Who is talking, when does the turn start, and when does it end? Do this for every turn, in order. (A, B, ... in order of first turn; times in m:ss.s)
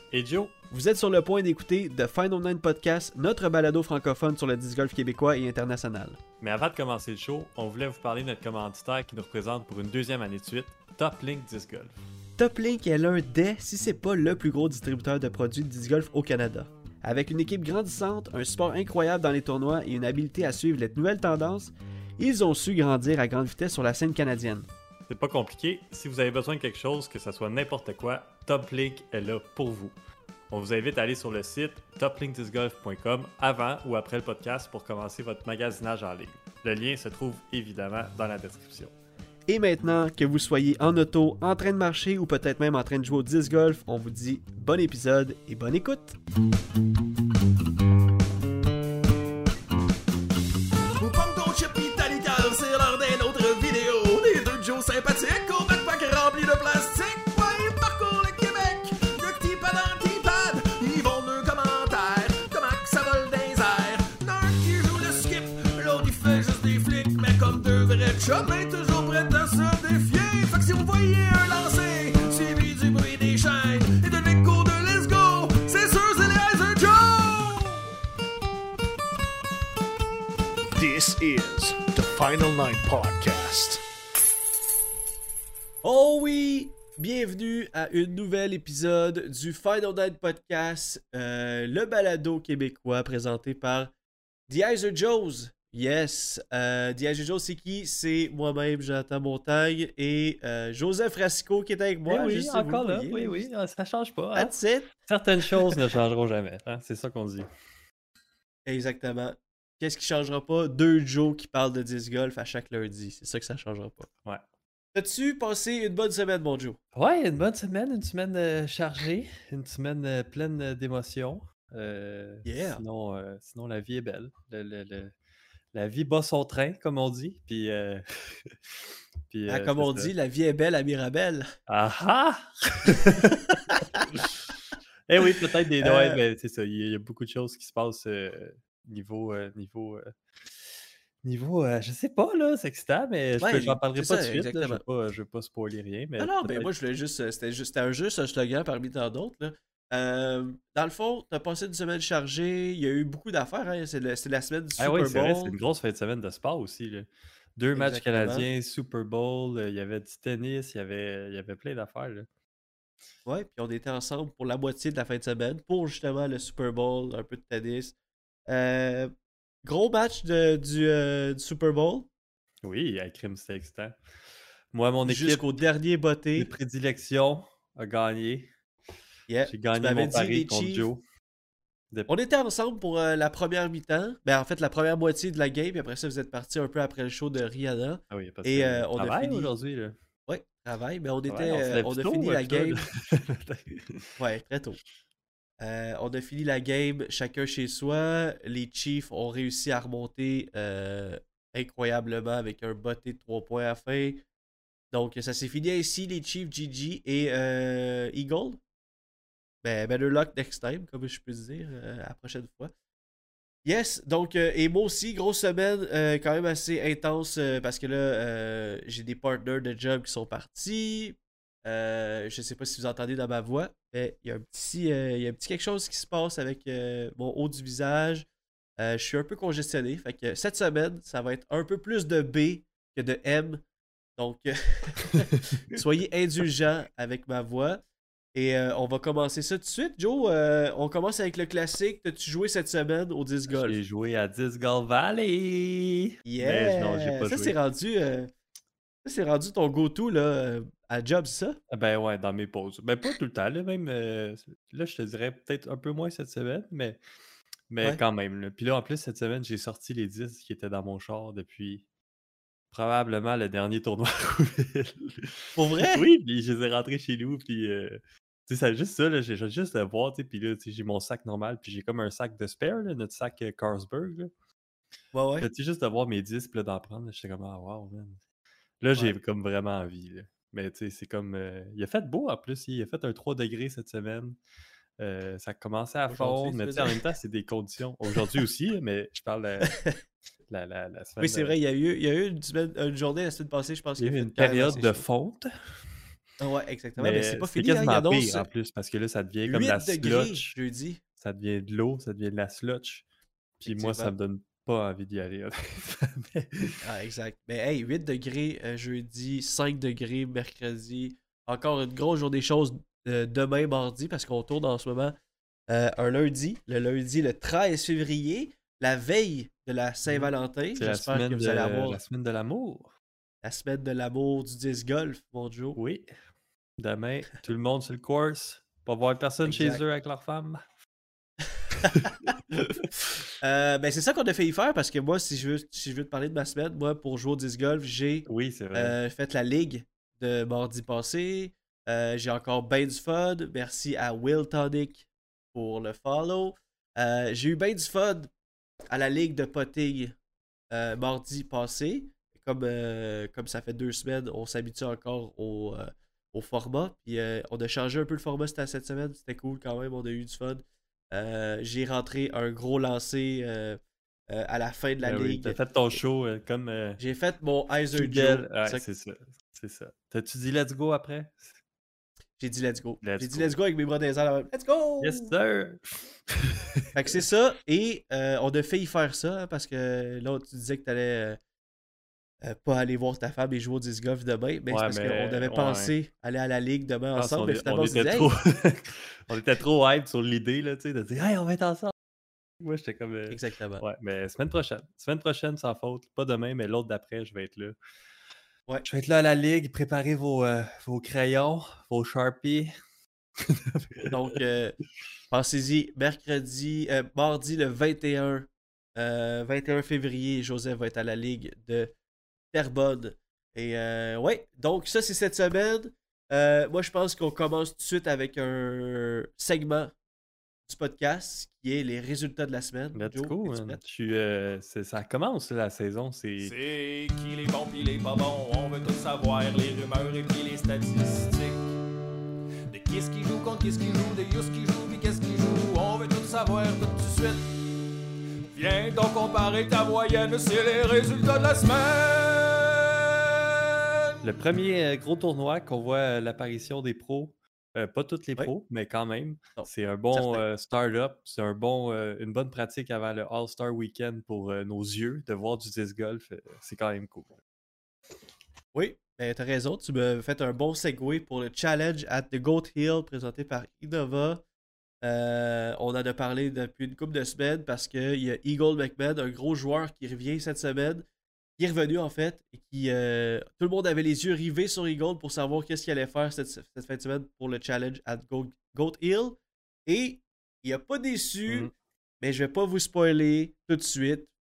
0:00.1-0:00.5 A
0:00.7-0:06.2 B
0:06.4-0:11.9 A
0:12.4-0:24.6 B
0:25.1-0:30.0 A
0:30.5-0:38.9 A
0:39.5-0:46.2 B
0:51.0-1:17.8 C
1:20.8-1:23.8 D
1:25.8-1:33.9 B
1:34.5-1:43.5 B
1:42.1-1:47.5 A
1:44.3-1:44.9 B
1:48.6-1:54.1 B
1:54.9-1:56.8 B
1:56.9-2:05.1 A
2:02.4-2:02.8 B
2:05.7-2:08.6 A
2:09.3-2:10.1 A
2:09.5-2:11.4 B
2:11.7-2:14.3 A
2:15.1-2:20.1 A
2:15.8-2:16.2 B
2:21.2-2:26.7 A
2:23.4-2:24.8 B
2:26.2-2:35.5 B
2:34.8-2:42.3 A
2:37.7-2:38.5 B
2:43.2-2:47.9 B
2:48.5-2:49.1 B
2:49.6-2:52.1 B
2:52.6-2:54.0 A
2:54.7-2:55.5 A
2:55.0-2:56.5 B
2:56.4-2:58.5 A
2:59.3-3:00.9 B
2:59.4-3:01.0 A
3:02.1-3:09.5 B
3:08.1-3:10.0 A
3:10.3-3:12.8 B
3:11.3-3:14.1 A
3:14.2-3:14.8 B
3:15.6-3:24.2 B
3:24.9-3:28.6 B
3:29.6-3:32.7 B
3:33.6-3:48.3 B
3:48.8-3:53.6 B
3:54.2-3:57.8 B
3:58.3-4:03.8 B
4:03.5-4:07.6 A
4:06.2-4:08.3 B
4:09.0-4:11.6 B
4:11.7-4:17.0 A
4:17.7-4:21.8 A
4:22.7-4:34.3 A
4:25.6-4:26.0 B
4:35.1-4:35.5 B
4:35.4-4:38.2 A
4:38.8-4:44.4 A
4:45.0-4:49.8 A
4:46.1-4:47.0 B
4:49.6-4:50.0 B
4:50.5-4:51.6 A
4:51.2-4:55.0 B
4:54.0-4:55.8 A
4:56.4-4:58.5 B
4:57.0-5:00.6 A
4:59.4-5:01.0 B
5:01.2-5:03.0 A
5:03.6-5:06.8 A
5:03.6-5:04.1 B
5:06.8-5:15.2 B
5:15.7-5:22.0 B
5:20.1-5:22.9 A
5:23.4-5:25.8 B
5:25.8-5:26.2 A
5:26.8-5:30.6 A
5:29.4-5:29.8 B
5:31.8-5:32.1 B
5:33.4-5:48.3 B
5:38.2-5:39.0 A
5:48.9-5:50.2 B
5:50.7-6:05.6 B
6:05.0-6:07.0 A
6:07.0-6:08.8 B
6:07.9-6:11.6 A
6:12.4-6:15.3 B
6:13.0-6:13.6 A
6:15.0-6:17.2 A
6:16.9-6:21.4 B
6:22.4-6:28.3 B
6:24.7-6:25.9 A
6:27.2-6:31.9 A
6:32.6-6:37.8 A
6:33.3-6:33.8 B
6:38.8-6:42.7 A
6:43.4-6:44.1 A
6:44.1-6:44.8 B
6:45.3-6:51.9 B
6:52.5-6:59.9 B
7:00.7-7:03.8 B
7:02.9-7:06.6 A
7:06.4-7:11.8 C
7:12.7-7:17.5 C
7:18.5-7:23.8 C
7:24.2-7:37.4 A
7:29.6-7:30.4 B
7:38.7-7:44.4 B
7:45.0-7:51.0 B
7:51.6-8:04.3 B
8:01.5-8:01.7 A